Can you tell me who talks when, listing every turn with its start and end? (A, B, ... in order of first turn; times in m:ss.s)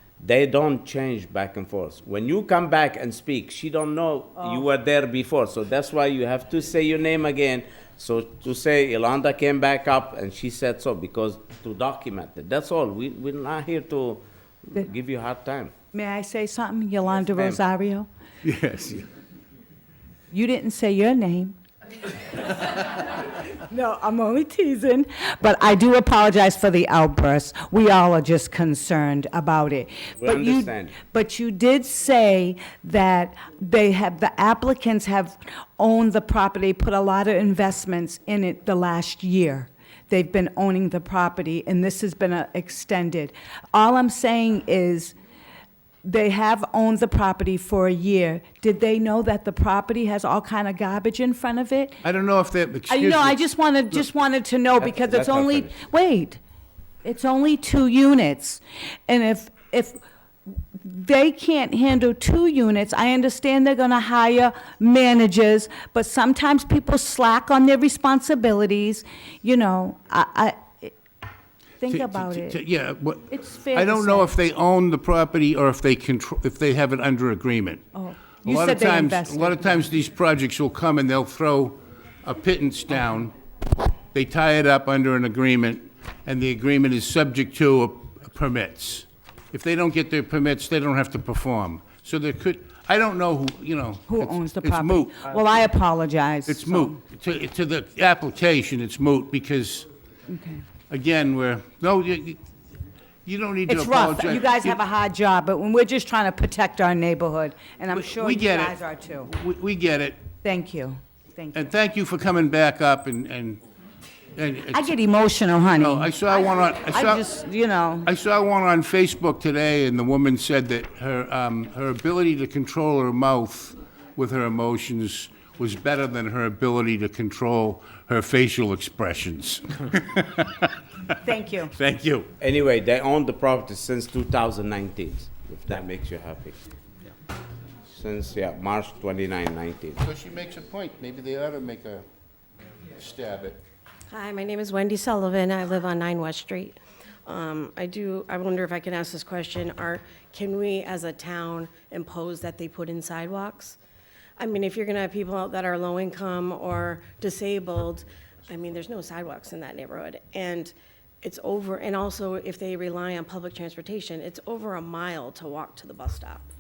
0:00.2-0:15.7 A
0:15.9-0:18.1 B
0:17.2-0:17.6 A
0:18.4-0:19.1 C
0:20.3-0:21.6 B
0:23.6-0:45.2 B
0:30.2-0:31.0 A
0:46.0-0:52.0 B
0:52.0-0:54.0 C
0:52.9-0:56.4 B
0:54.8-0:55.8 A
0:57.0-1:00.0 B
1:00.8-1:11.0 B
1:11.8-1:12.6 B
1:11.9-1:17.8 C
1:13.3-1:14.3 B
1:18.0-1:19.8 B
1:18.4-1:23.3 C
1:24.1-1:35.2 C
1:34.1-1:37.0 B
1:36.5-1:39.9 C
1:40.3-1:40.6 B
1:40.9-1:42.4 C
1:43.2-1:44.8 C
1:43.7-1:49.3 B
1:48.0-1:50.2 C
1:50.4-1:51.6 B
1:51.5-1:53.6 C
1:54.4-1:54.9 C
1:54.7-1:56.2 B
1:55.8-1:57.3 C
1:56.9-1:58.1 B
1:58.0-2:10.7 C
2:11.2-2:11.7 B
2:11.7-2:12.3 C
2:12.4-2:16.6 A
2:17.9-2:20.0 A
2:20.0-2:22.0 C
2:23.0-2:23.6 C
2:24.1-2:33.8 D
2:34.4-2:46.5 D